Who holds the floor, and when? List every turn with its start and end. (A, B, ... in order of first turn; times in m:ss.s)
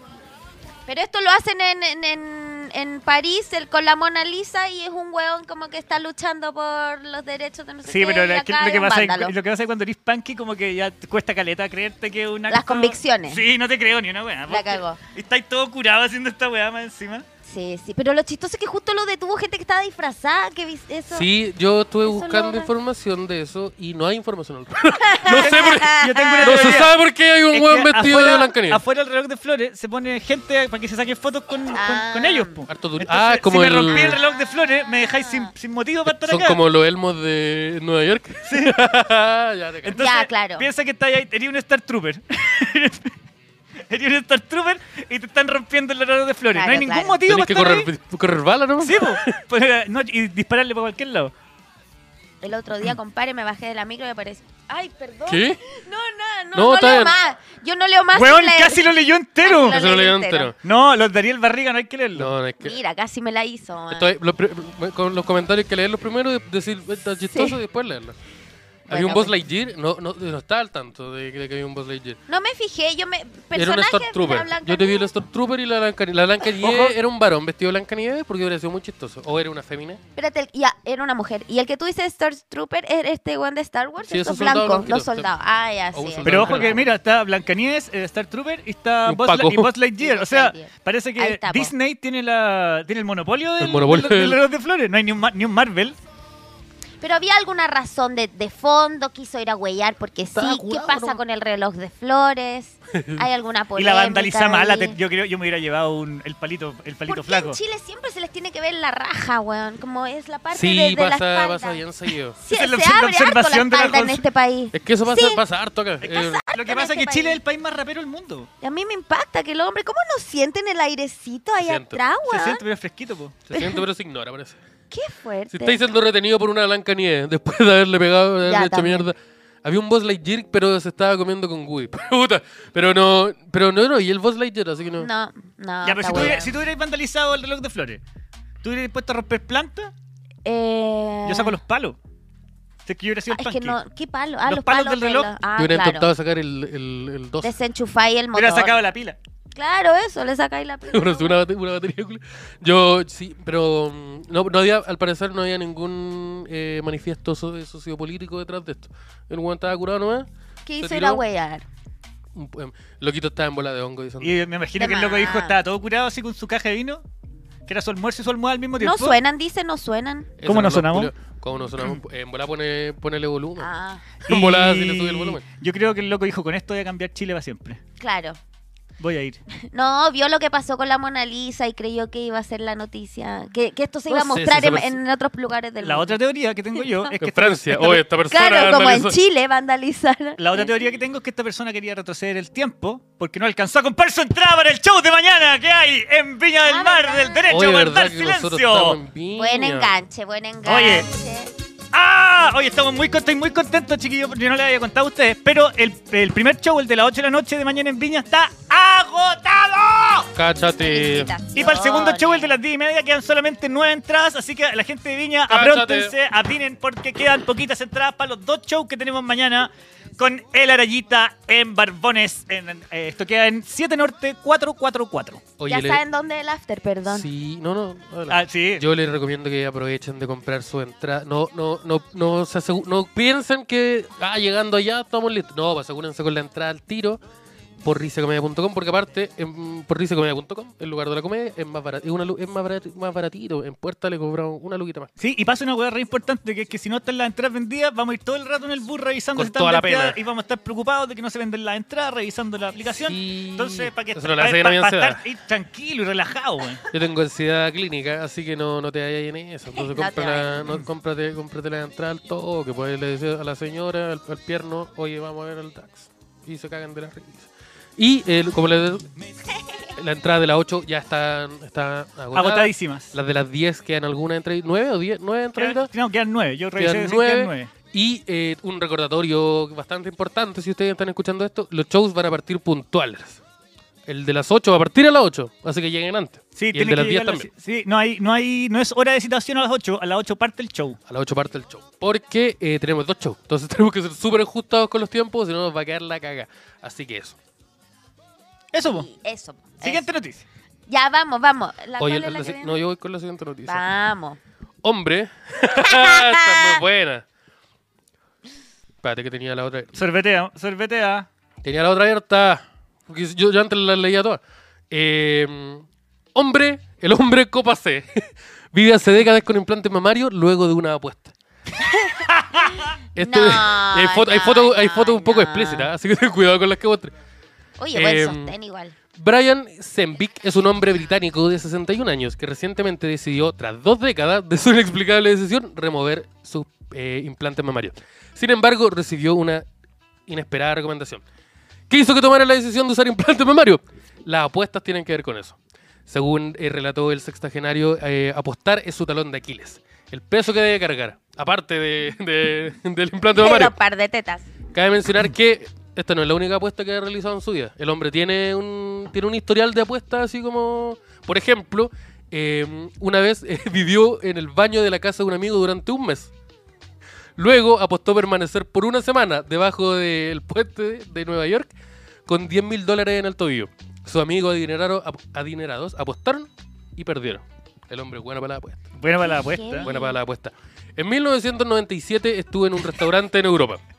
0:00.9-0:09.3 A
0:07.8-0:17.2 B
0:12.5-0:13.4 A
0:14.5-0:15.0 A
0:17.4-0:21.3 A
0:21.1-0:28.8 C
0:22.0-0:22.7 A
0:25.0-0:26.8 A
0:25.3-0:26.9 B
0:27.5-0:36.6 B
0:31.7-0:32.6 A
0:32.7-0:34.2 C
0:35.2-0:35.5 A
0:36.0-0:40.0 C
0:38.4-0:38.7 B
0:39.8-0:43.1 B
0:39.9-0:40.7 A
0:43.9-0:47.9 B
0:46.5-0:47.2 A
0:47.3-0:49.4 C
0:48.8-0:51.3 B
0:52.4-0:58.9 A
0:55.2-0:55.6 C
0:56.5-0:57.2 C
0:58.1-0:59.8 B
0:59.4-1:00.5 A
0:59.7-1:00.6 C
1:00.6-1:02.3 B
1:02.1-1:02.8 C
1:02.6-1:04.1 A
1:03.9-1:08.2 C
1:07.3-1:07.6 A
1:08.9-1:09.3 A
1:08.9-1:12.2 C
1:12.3-1:15.1 A
1:13.5-1:20.0 C
1:16.6-1:16.9 A
1:20.2-1:26.8 A
1:24.1-1:25.3 C
1:25.9-1:26.9 C
1:26.2-1:36.0 B
1:29.0-1:29.7 C
1:30.0-1:31.7 A
1:33.6-1:34.4 C
1:37.0-1:45.0 A
1:40.3-1:41.2 C
1:42.9-1:43.2 C
1:43.8-1:47.6 B
1:47.1-1:55.4 A
1:50.5-1:52.4 C
1:52.5-1:54.2 B
1:54.7-1:56.4 C
1:56.0-1:58.5 B
1:56.0-1:57.4 A
1:58.6-2:02.6 A
2:01.6-2:02.0 C
2:02.3-2:03.4 B
2:03.5-2:04.6 C
2:03.5-2:03.8 A
2:04.9-2:05.8 A
2:05.5-2:15.1 C
2:08.4-2:09.1 A
2:15.0-2:16.5 A
2:15.8-2:18.0 B
2:16.1-2:16.4 C
2:18.6-2:19.9 B
2:20.4-2:21.6 A
2:21.2-2:22.0 B
2:22.8-2:23.8 B
2:23.3-2:26.1 A
2:24.4-2:25.3 B
2:25.6-2:27.5 C
2:27.4-2:28.8 A
2:28.3-2:29.2 B
2:29.5-2:31.4 A
2:30.9-2:40.3 C
2:40.6-2:41.6 A
2:40.8-2:41.2 C
2:42.3-2:44.4 C
2:44.2-2:47.0 B
2:44.8-2:45.6 A
2:47.7-2:49.2 B
2:48.8-2:50.4 A
2:50.4-2:53.7 C
2:50.4-2:51.1 B
2:53.6-2:54.0 A
2:54.2-2:55.4 C
2:54.2-2:57.8 B
2:58.0-2:58.4 A
2:59.0-2:59.4 B
2:59.7-3:06.2 A
3:04.1-3:05.0 C
3:05.8-3:08.0 B
3:07.2-3:09.2 C
3:08.3-3:10.8 A
3:10.4-3:19.0 B
3:16.6-3:17.5 A
3:17.5-3:19.9 C
3:19.4-3:21.5 A
3:20.6-3:21.1 B
3:21.9-3:30.3 B
3:30.3-3:31.3 C
3:30.8-3:32.6 A
3:31.5-3:45.4 B
3:35.5-3:36.1 C
3:45.6-3:46.0 C
3:45.7-3:47.3 A
3:47.0-3:57.2 C
3:48.3-3:48.8 B
3:57.8-4:05.1 C
4:05.2-4:16.8 B
4:09.3-4:10.2 C
4:12.8-4:15.2 C
4:16.9-4:29.1 C
4:19.7-4:20.7 A
4:29.9-4:35.9 C
4:32.3-4:33.1 B
4:35.6-4:37.7 B
4:36.8-4:43.4 C
4:44.0-4:47.5 C
4:46.6-4:51.0 B
4:51.1-4:57.4 C
4:58.7-4:59.1 B
4:58.8-5:00.0 A
4:59.8-5:00.4 B
5:00.9-5:02.8 A
5:02.0-5:03.8 C
5:03.6-5:04.4 A
5:04.8-5:07.2 C
5:05.8-5:06.8 A
5:09.0-5:09.9 C
5:09.9-5:11.3 B
5:11.6-5:21.3 C
5:21.8-5:22.3 A
5:22.4-5:22.7 B
5:23.1-5:27.1 C
5:23.2-5:25.9 A
5:27.8-5:29.0 A
5:27.9-5:28.5 C
5:29.1-5:39.6 C
5:40.3-5:41.2 C
5:41.9-5:53.7 C
5:53.3-5:54.4 A
5:54.7-6:06.3 C
6:07.4-6:11.7 C
6:12.2-6:18.8 C
6:19.0-6:19.9 B
6:19.2-6:20.2 A
6:19.8-6:23.8 C